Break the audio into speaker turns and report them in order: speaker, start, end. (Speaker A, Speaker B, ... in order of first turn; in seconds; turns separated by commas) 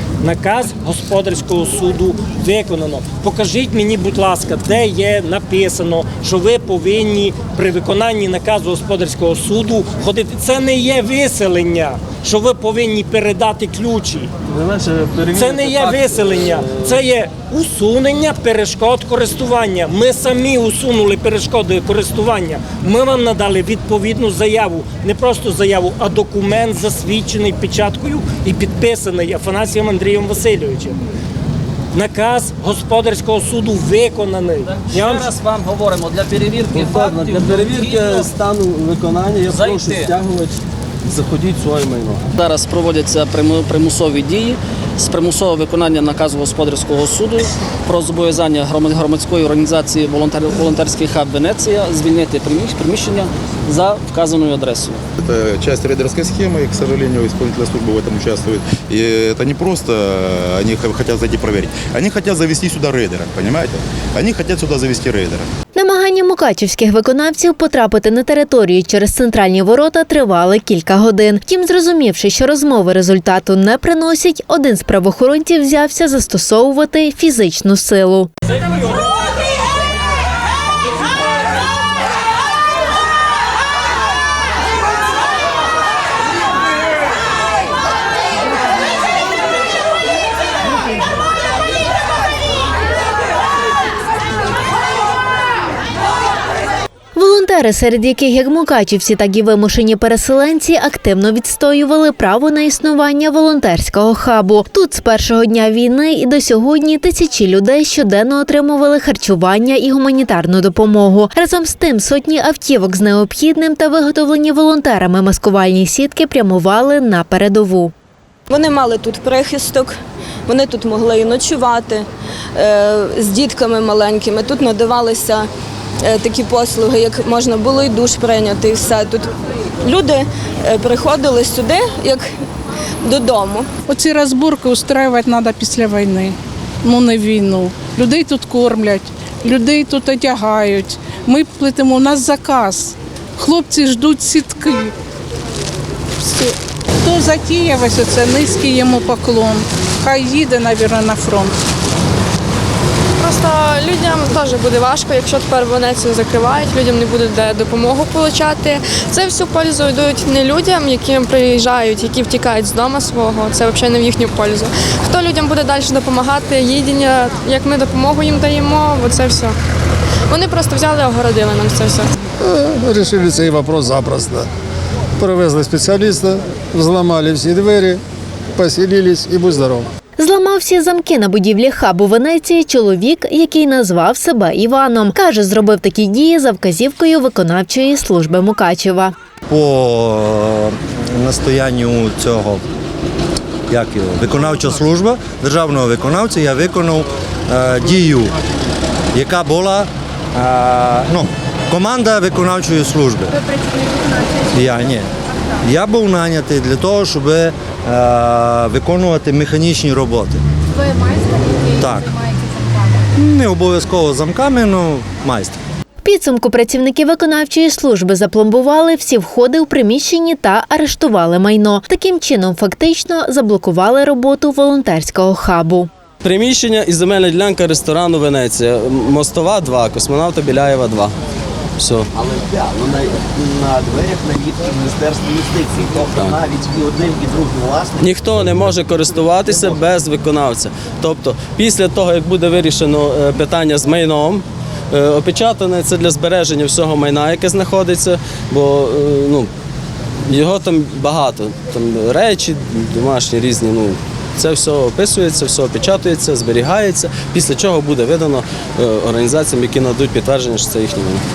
Speaker A: 0.2-14.3, Speaker B: 14.5-17.0, Speaker A: 15.3-31.0, Speaker A: 31.9-35.4, Speaker C: 34.9-38.2, Speaker B: 36.7-42.4, Speaker C: 39.5-40.1, Speaker C: 42.4-55.0, Speaker D: 55.2-65.5, Speaker E: 65.7-78.3, Speaker E: 97.2-117.9, Speaker F: 118.5-120.0, Speaker F: 120.5-125.5, Speaker F: 126.0-129.3, Speaker F: 129.8-132.3, Speaker F: 133.0-133.7, Speaker G: 133.9-144.9, Speaker G: 146.2-151.6, Speaker H: 153.2-169.6, Speaker H: 170.3-172.1, Speaker I: 172.4-174.5, Speaker I: 175.2-178.0, Speaker I: 178.6-179.9, Speaker E: 180.2-189.1, Speaker J: 189.5-192.7, Speaker J: 193.7-198.3, Speaker J: 199.1-203.4, Speaker J: 204.5-210.4, Speaker J: 211.6-212.2, Speaker J: 213.2-215.6, Speaker E: 216.0-225.9, Speaker B: 226.2-231.2, Speaker B: 231.8-232.1, Speaker K: 232.1-238.7, Speaker B: 236.2-236.4, Speaker B: 238.0-249.5, Speaker B: 250.3-261.2